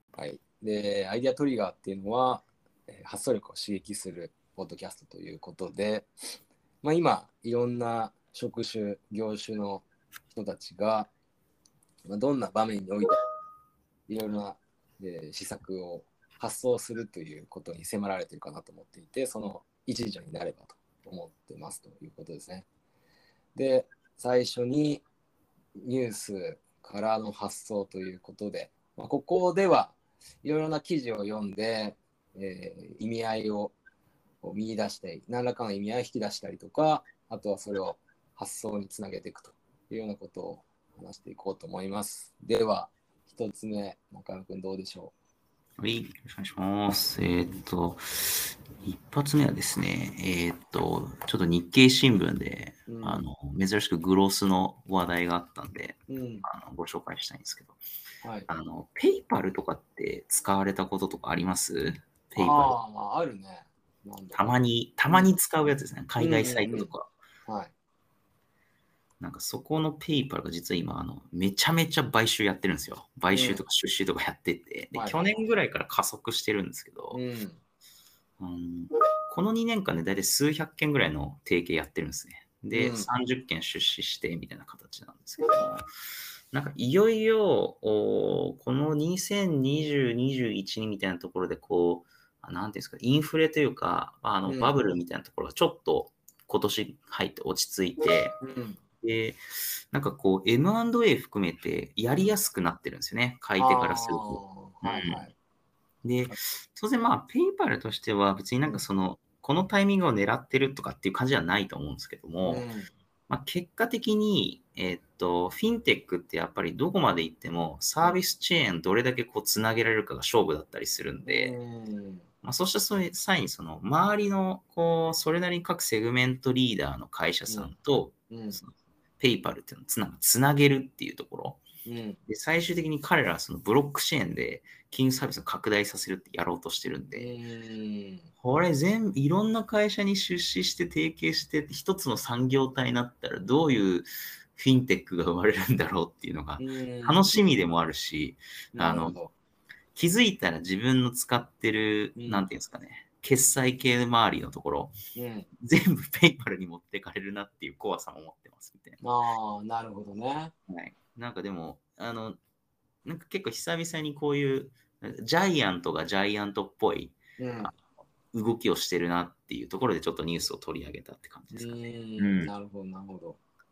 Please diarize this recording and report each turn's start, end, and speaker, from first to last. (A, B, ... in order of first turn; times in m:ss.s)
0:00.1-0:06.1 A
0:06.8-0:11.1 A
0:12.1-0:13.1 A
0:14.1-0:22.7 A
0:23.6-0:25.0 A
0:25.8-0:33.8 A
0:34.4-0:45.1 A
0:45.8-0:57.8 B
0:52.9-0:53.2 A
0:56.1-0:56.5 A
0:58.2-0:58.5 A
0:58.5-1:02.8 B
1:02.4-1:04.6 A
1:04.3-1:07.1 B
1:06.2-1:06.9 A
1:07.5-1:07.7 A
1:09.2-1:17.2 B
1:13.3-1:13.6 A
1:17.1-1:17.6 A
1:18.4-1:25.9 B
1:22.7-1:23.1 A
1:26.5-1:38.4 B
1:34.4-1:34.8 A
1:38.4-1:38.8 A
1:39.0-1:39.4 B
1:39.9-1:45.2 B
1:43.6-1:45.4 A
1:46.0-1:52.7 B
1:52.4-1:52.9 A
1:53.3-2:01.6 B
2:01.2-2:02.3 A
2:02.4-2:11.6 B
2:07.5-2:07.7 A
2:08.3-2:08.6 A
2:11.8-2:12.2 A
2:12.3-2:17.3 B
2:17.2-2:18.3 A
2:18.4-2:29.2 B
2:26.6-2:27.4 A
2:28.8-2:29.3 A
2:30.0-2:34.9 B
2:32.2-2:32.5 A
2:35.2-2:35.5 A
2:35.6-2:39.0 B
2:39.0-2:40.5 A
2:40.7-2:42.4 B
2:43.0-2:52.5 B
2:47.4-2:47.7 A
2:51.5-2:53.4 A